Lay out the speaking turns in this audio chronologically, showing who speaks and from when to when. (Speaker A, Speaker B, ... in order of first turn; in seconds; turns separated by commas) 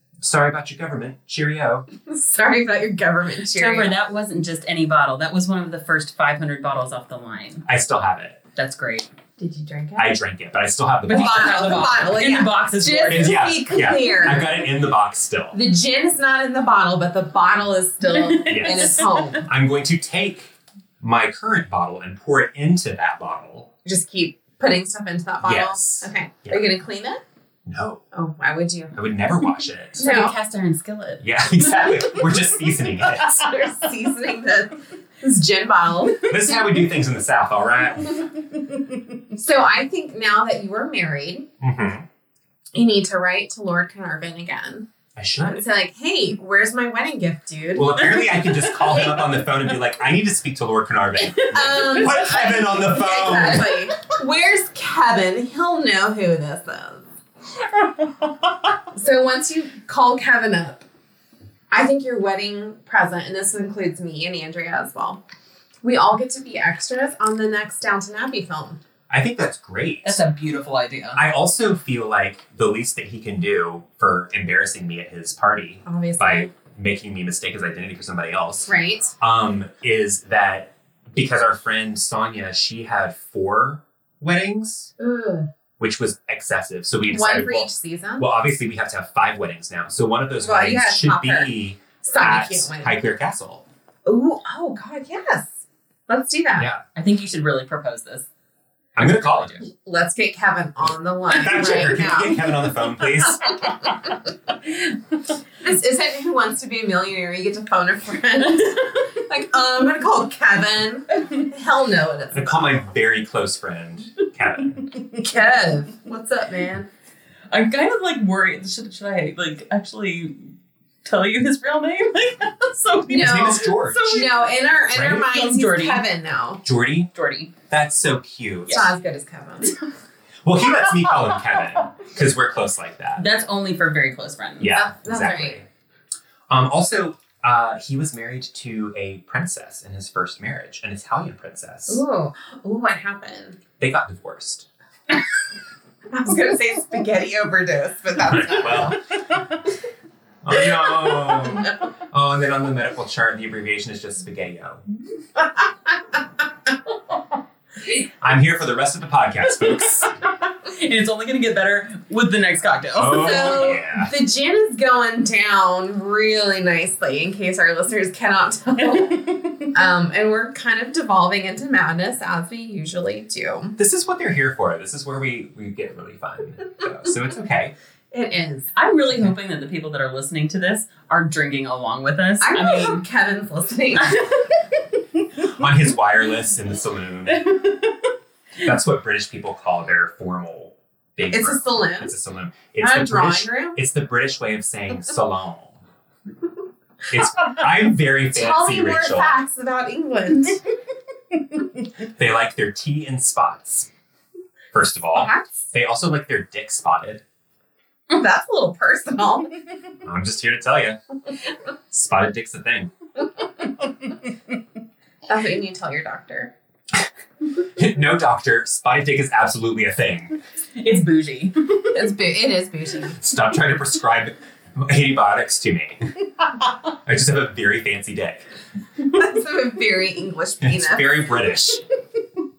Speaker A: 0.2-1.9, Speaker B: 2.1-3.9, Speaker C: 3.5-7.7, Speaker A: 7.7-8.4, Speaker C: 8.6-9.1, Speaker B: 9.4-10.2, Speaker A: 9.9-11.9, Speaker C: 11.1-13.4, Speaker B: 11.1-14.7, Speaker A: 13.1-15.6, Speaker B: 15.5-19.4, Speaker C: 18.0-19.4, Speaker A: 18.5-23.7, Speaker B: 23.9-27.2, Speaker A: 25.4-26.6, Speaker A: 27.6-28.0, Speaker B: 28.1-28.9, Speaker A: 28.9-30.0, Speaker B: 30.0-30.4, Speaker C: 30.0-32.1, Speaker A: 31.2-33.5, Speaker B: 33.1-36.7, Speaker A: 36.2-38.3, Speaker B: 39.4-41.5, Speaker A: 41.6-42.1, Speaker B: 42.7-44.9, Speaker A: 45.1-45.6, Speaker B: 45.4-48.4, Speaker A: 47.7-53.8, Speaker B: 51.2-57.1, Speaker B: 58.9-60.8, Speaker B: 61.7-65.2, Speaker B: 65.8-68.8, Speaker A: 69.1-70.2, Speaker C: 70.0-71.2, Speaker A: 71.2-84.9, Speaker B: 75.9-76.5, Speaker B: 78.7-79.1, Speaker B: 85.0-85.5, Speaker A: 85.8-93.6, Speaker B: 87.1-88.3, Speaker B: 90.4-93.0, Speaker B: 94.1-95.5, Speaker B: 96.1-96.7, Speaker A: 96.6-96.8, Speaker C: 96.9-98.3, Speaker A: 99.0-99.6, Speaker C: 99.0-99.6, Speaker B: 99.7-102.5, Speaker A: 101.3-103.6, Speaker B: 103.7-104.1, Speaker B: 105.6-112.8, Speaker A: 112.3-114.9, Speaker B: 115.2-116.9, Speaker C: 117.5-120.5, Speaker C: 121.0-124.5, Speaker A: 123.1-124.2, Speaker B: 123.1-126.6, Speaker A: 124.9-125.2, Speaker C: 125.0-126.0, Speaker A: 126.6-127.1, Speaker C: 127.1-127.5, Speaker A: 127.7-128.9, Speaker B: 128.7-129.7, Speaker A: 130.4-133.2, Speaker C: 133.2-134.7, Speaker A: 134.6-135.7, Speaker B: 134.7-135.6, Speaker A: 136.5-142.0, Speaker B: 141.9-143.6, Speaker A: 143.8-144.7, Speaker B: 146.1-149.0, Speaker A: 148.3-149.0, Speaker A: 150.4-154.8, Speaker A: 158.2-160.1, Speaker C: 159.9-163.7, Speaker A: 162.9-164.1, Speaker B: 163.1-173.8, Speaker C: 168.9-169.7, Speaker A: 173.8-177.7, Speaker B: 178.1-178.7, Speaker C: 178.7-183.0, Speaker B: 182.4-184.3, Speaker C: 184.0-184.5, Speaker A: 185.4-187.4, Speaker C: 187.3-188.1, Speaker A: 188.6-195.8, Speaker B: 191.3-192.1, Speaker B: 192.8-193.8, Speaker A: 197.1-199.4, Speaker B: 198.3-200.6, Speaker A: 202.2-203.9, Speaker A: 204.7-207.2, Speaker B: 205.1-205.5, Speaker B: 208.1-209.5, Speaker A: 210.0-211.0, Speaker A: 211.9-212.9, Speaker B: 215.3-216.5, Speaker A: 217.8-220.4, Speaker C: 220.8-221.8, Speaker B: 221.9-223.2, Speaker A: 223.2-226.1, Speaker A: 227.1-228.4, Speaker B: 229.1-231.2, Speaker A: 230.6-231.8